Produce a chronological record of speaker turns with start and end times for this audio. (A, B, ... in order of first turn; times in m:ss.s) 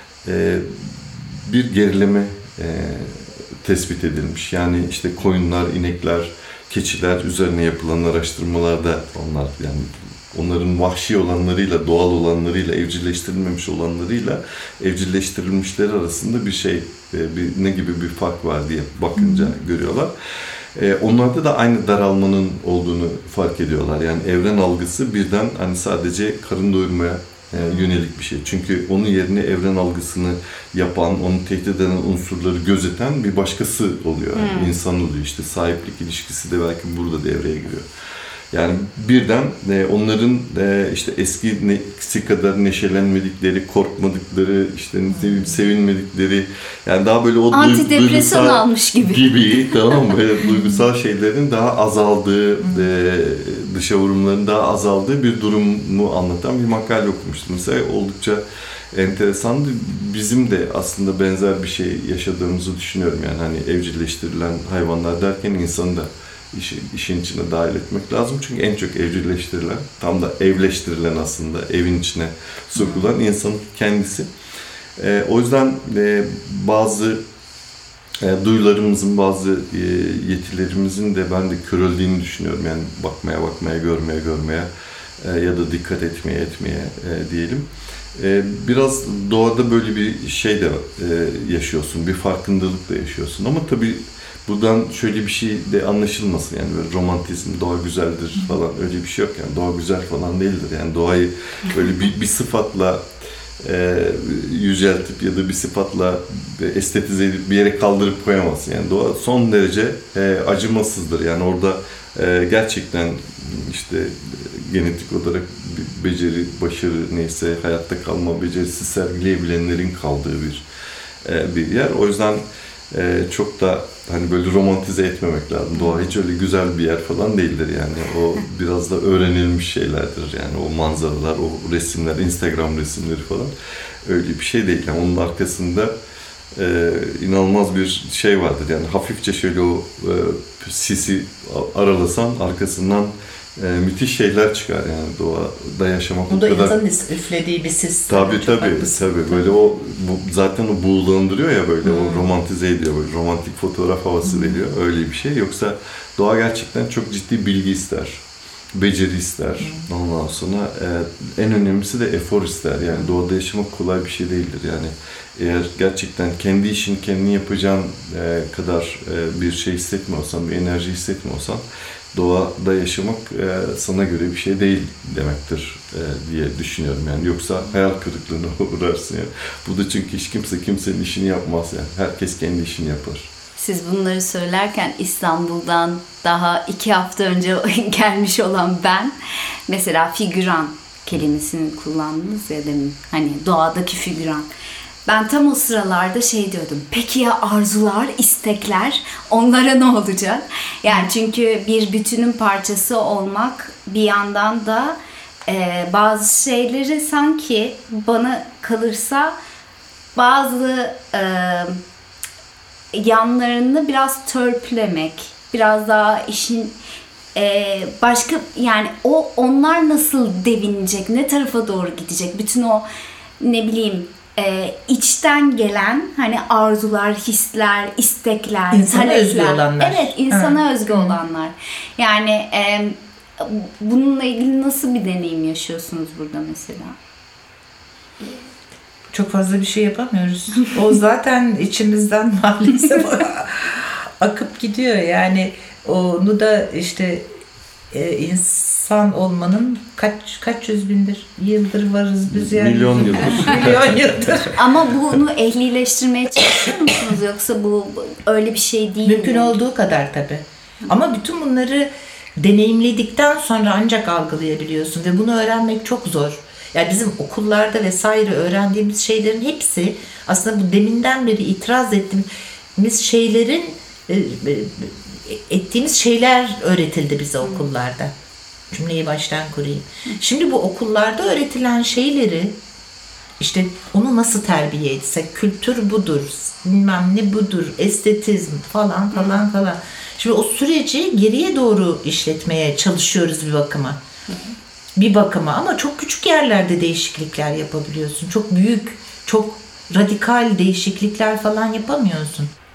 0:00.2-0:37.9 A
0:19.2-0:19.5 B
0:27.6-0:28.0 C
0:34.4-0:34.7 C
0:38.5-1:14.3 A
0:45.1-0:45.6 B
0:47.5-0:50.0 C
1:15.0-1:17.2 A
1:18.2-1:43.1 A
1:43.6-2:00.7 A
2:01.2-2:13.5 A
2:05.7-2:06.1 C
2:14.0-2:15.9 A
2:16.5-2:26.8 A
2:26.3-2:29.6 B
2:28.1-2:38.2 A
2:31.9-2:32.2 C
2:34.3-2:34.6 B
2:38.7-2:51.6 A
2:39.6-2:39.9 B
2:52.1-3:03.3 A
3:03.6-3:09.2 C
3:09.7-3:14.5 C
3:15.1-3:29.4 C
3:30.2-3:31.8 C
3:32.9-3:36.8 C
3:37.4-3:42.9 C
3:43.4-3:57.0 C
3:48.7-3:51.2 B
3:59.1-4:07.3 B
4:07.9-4:14.6 B
4:12.3-4:14.3 A
4:14.5-4:19.6 C
4:19.0-4:38.1 B
4:38.7-4:42.6 B
4:43.4-4:54.0 B
4:49.1-4:49.4 C
4:54.3-4:54.5 C
4:55.0-5:02.5 B